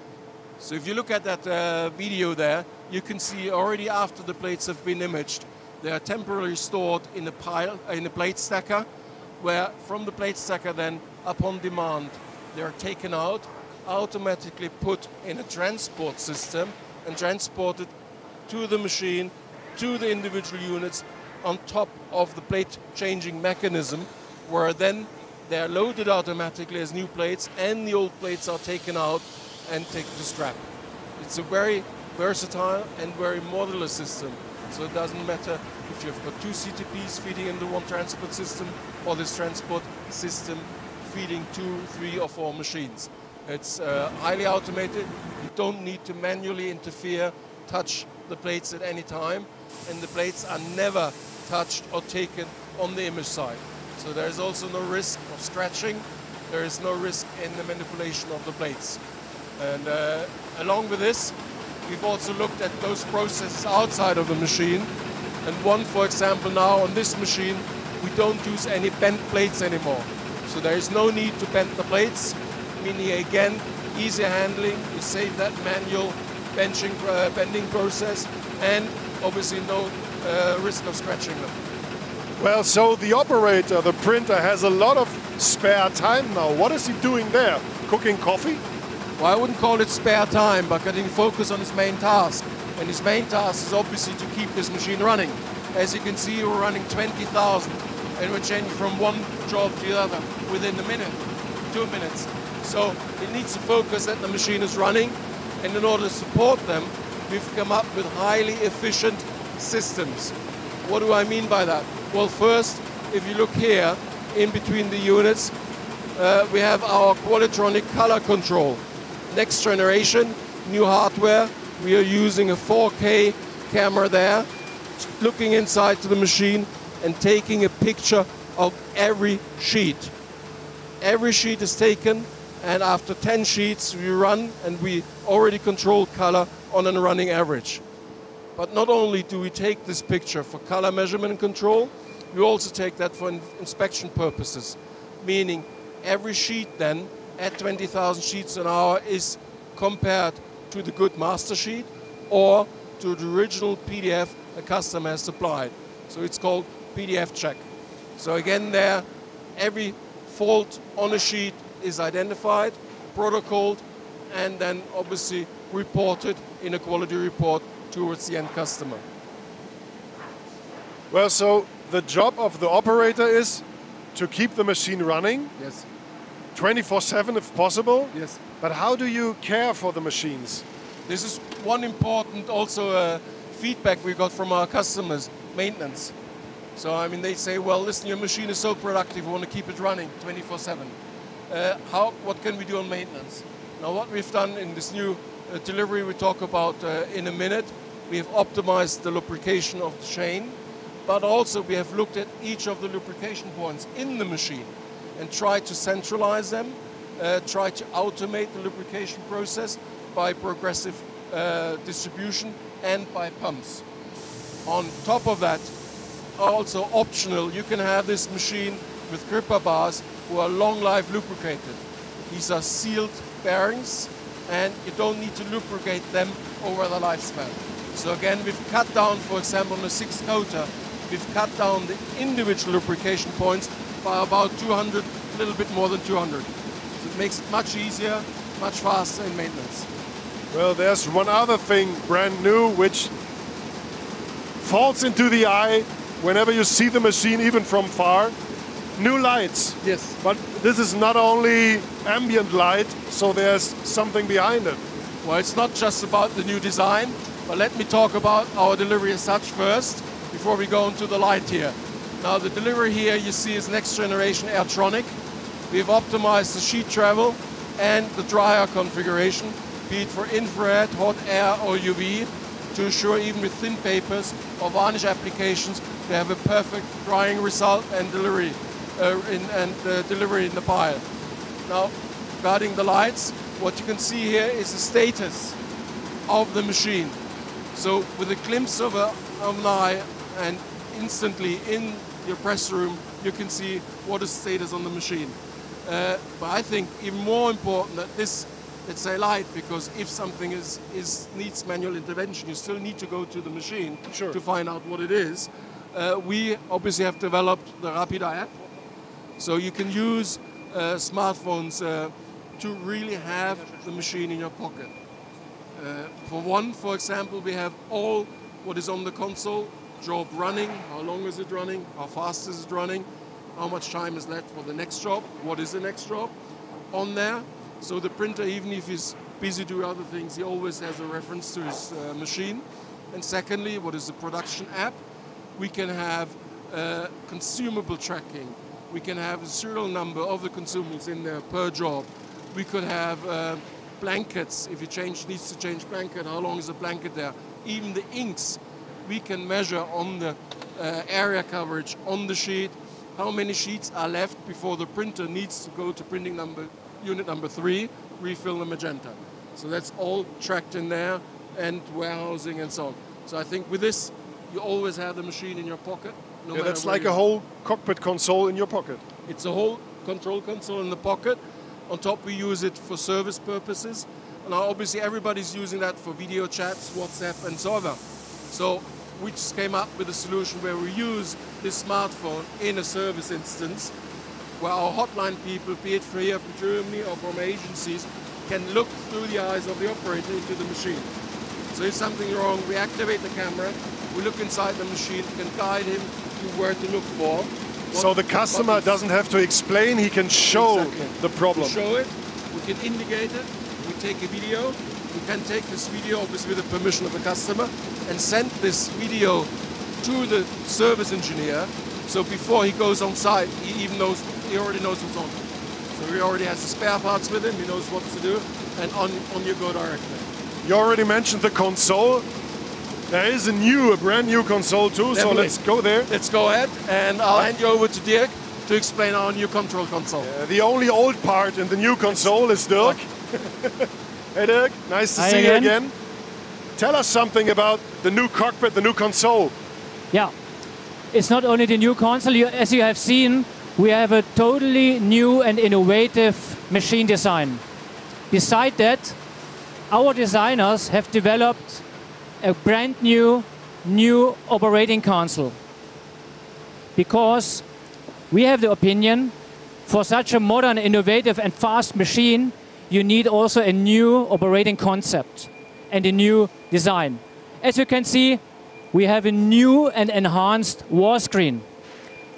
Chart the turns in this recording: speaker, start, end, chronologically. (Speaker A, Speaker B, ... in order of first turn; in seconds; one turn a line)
Speaker A: 0.6-8.9
Speaker A: 9.4-17.9
Speaker A: 18.5-30.7
Speaker A: 31.2-59.0
Speaker A: 59.6-61.3
Speaker A: 61.9-64.9
Speaker A: 65.4-81.5
Speaker B: 82.4-88.6
Speaker A: 89.2-115.5
Speaker A: 116.2-124.5
Speaker A: 125.0-130.1
Speaker A: 131.0-137.8
Speaker A: 138.6-157.7
Speaker A: 158.2-159.0
Speaker A: 159.6-169.0
Speaker B: 171.1-175.5
Speaker A: 175.6-175.8
Speaker B: 176.5-180.6
Speaker A: 178.1-178.4
Speaker A: 181.1-186.1
Speaker A: 186.8-190.9
Speaker A: 191.5-213.8
Speaker A: 214.6-215.7
Speaker A: 216.3-239.9
Speaker B: 240.5-243.1
Speaker B: 244.6-248.3
Speaker B: 249.0-254.8
Speaker A: 249.8-250.2
Speaker A: 255.2-265.1
Speaker A: 265.7-281.0
Speaker A: 281.6-285.6
Speaker A: 286.3-287.2
Speaker A: 287.7-308.5
Speaker B: 304.1-304.4
Speaker A: 309.4-314.9
Speaker A: 315.8-326.3
Speaker A: 326.9-335.0
Speaker A: 335.6-367.2
Speaker B: 366.5-369.0
Speaker A: 369.3-378.0
Speaker A: 378.5-383.9
Speaker A: 384.6-391.1
Speaker A: 391.7-399.0
Speaker B: 397.9-401.8
Speaker A: 400.5-409.5
Speaker A: 410.0-415.4
Speaker A: 415.9-420.3
Speaker B: 420.6-422.2
Speaker B: 423.1-426.1
Speaker A: 425.1-425.6
Speaker A: 426.1-430.3
Speaker B: 430.2-435.9
Speaker A: 432.1-432.9
Speaker C: 435.1-435.7
Speaker B: 436.8-439.5
Speaker C: 441.1-447.6
Speaker C: 448.3-449.2
Speaker C: 449.9-451.8
Speaker C: 452.4-455.6
Speaker C: 456.9-457.6
Speaker C: 458.3-459.3
Speaker C: 459.9-471.6